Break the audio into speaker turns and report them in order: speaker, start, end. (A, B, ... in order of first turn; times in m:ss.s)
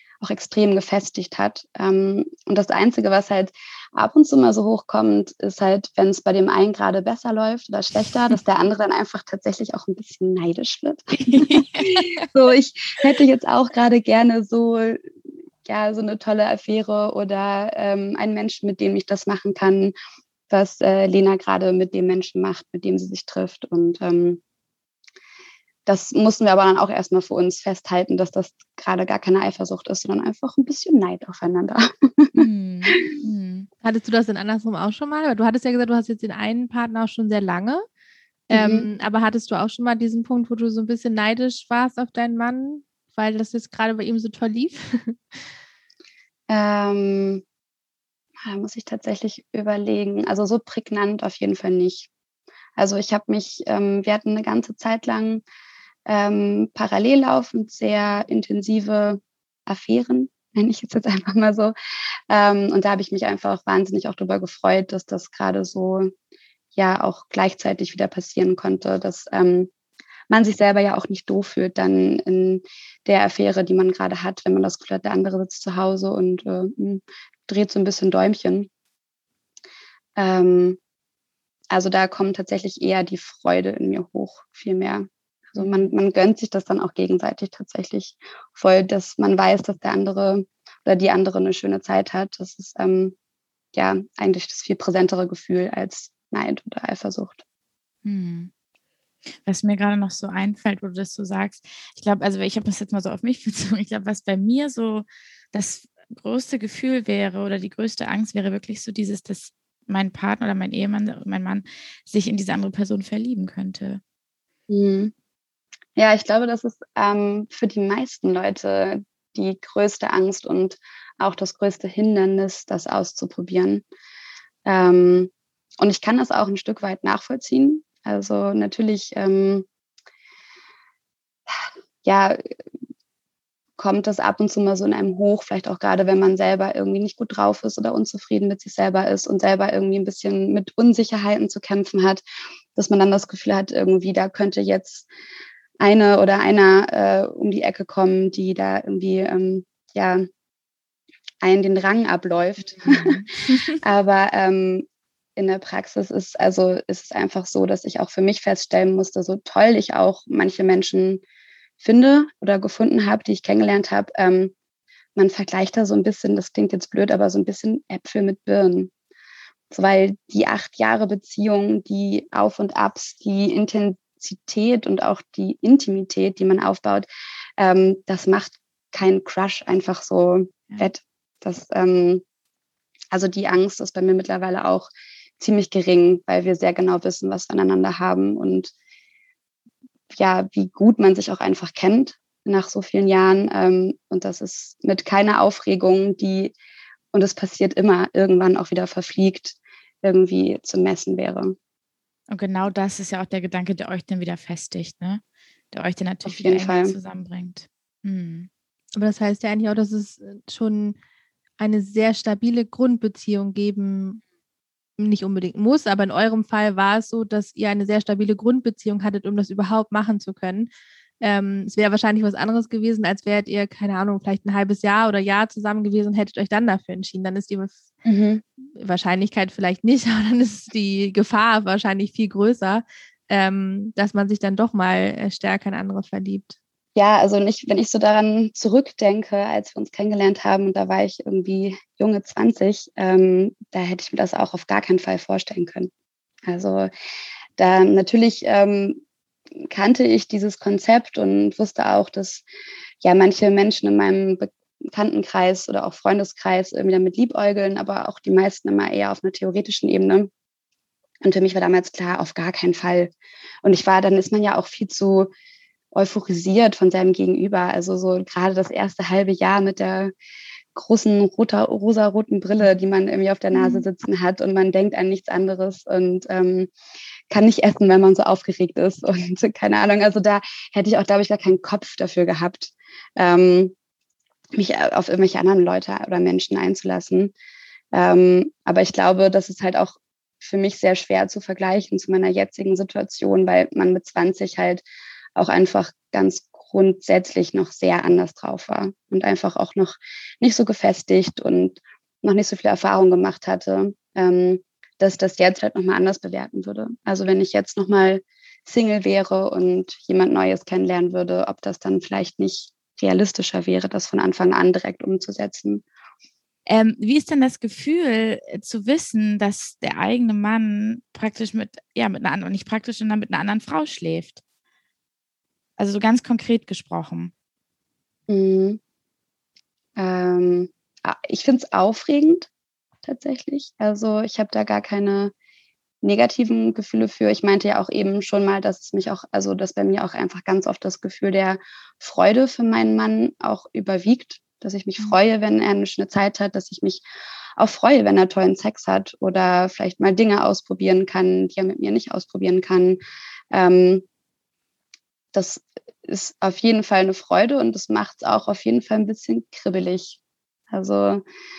0:00.2-0:15.0 A
0:11.2-0:12.3 B
0:15.6-0:19.9 A
0:20.5-0:24.4 A
0:25.9-0:33.2 A
0:32.4-0:33.7 B
0:33.8-0:37.8 C
0:38.5-0:45.2 C
0:38.5-0:38.9 A
0:46.5-0:47.4 A
0:48.5-0:52.1 A
0:52.8-0:55.4 A
0:56.1-1:01.7 A
1:02.3-1:06.1 A
1:06.8-1:09.7 A
1:10.3-1:18.7 A
1:20.2-1:20.8 A
1:21.7-1:33.2 A
1:25.6-1:25.9 B
1:33.7-1:37.4 A
1:38.0-1:38.5 B
1:39.4-1:54.0 B
1:54.7-1:55.1 A
1:56.0-2:03.8 A
2:04.7-2:09.7 A
2:11.5-2:12.4 A
2:13.8-2:22.2 A
2:22.8-2:25.1 A
2:25.8-2:30.2 A
2:31.4-2:33.2 A
2:32.8-2:33.7 B
2:33.8-2:34.9 A
2:35.4-2:41.2 A
2:41.8-2:44.5 A
2:45.2-2:48.9 A
2:49.7-2:57.1 A
2:57.6-3:02.2 A
3:03.1-3:08.7 A
3:10.1-3:16.5 A
3:17.1-3:21.6 A
3:22.3-3:28.5 B
3:26.3-3:27.0 A
3:29.0-3:31.0 C
3:31.6-3:34.2 C
3:35.0-3:40.7 C
3:41.2-3:47.8 C
3:48.0-3:48.4 A
3:48.8-3:56.6 C
3:57.0-4:05.9 A
4:06.5-4:06.9 A
4:07.6-4:09.0 A
4:09.7-4:12.4 A
4:13.0-4:20.3 A
4:21.2-4:23.1 A
4:23.6-4:25.3 A
4:25.9-4:30.1 A
4:30.8-4:36.7 A
4:33.6-4:33.8 B
4:37.3-4:43.7 A
4:44.5-4:47.3 A
4:47.9-4:54.8 A
4:55.4-5:15.8 A
5:16.7-5:24.4 B
5:25.8-5:27.3 B
5:28.3-5:28.8 A
5:30.0-5:32.5 A
5:33.0-5:35.3 A
5:36.0-5:47.0 A
5:47.6-5:53.0 A
5:53.5-5:54.0 A
5:55.3-6:00.2 A
6:00.7-6:01.2 A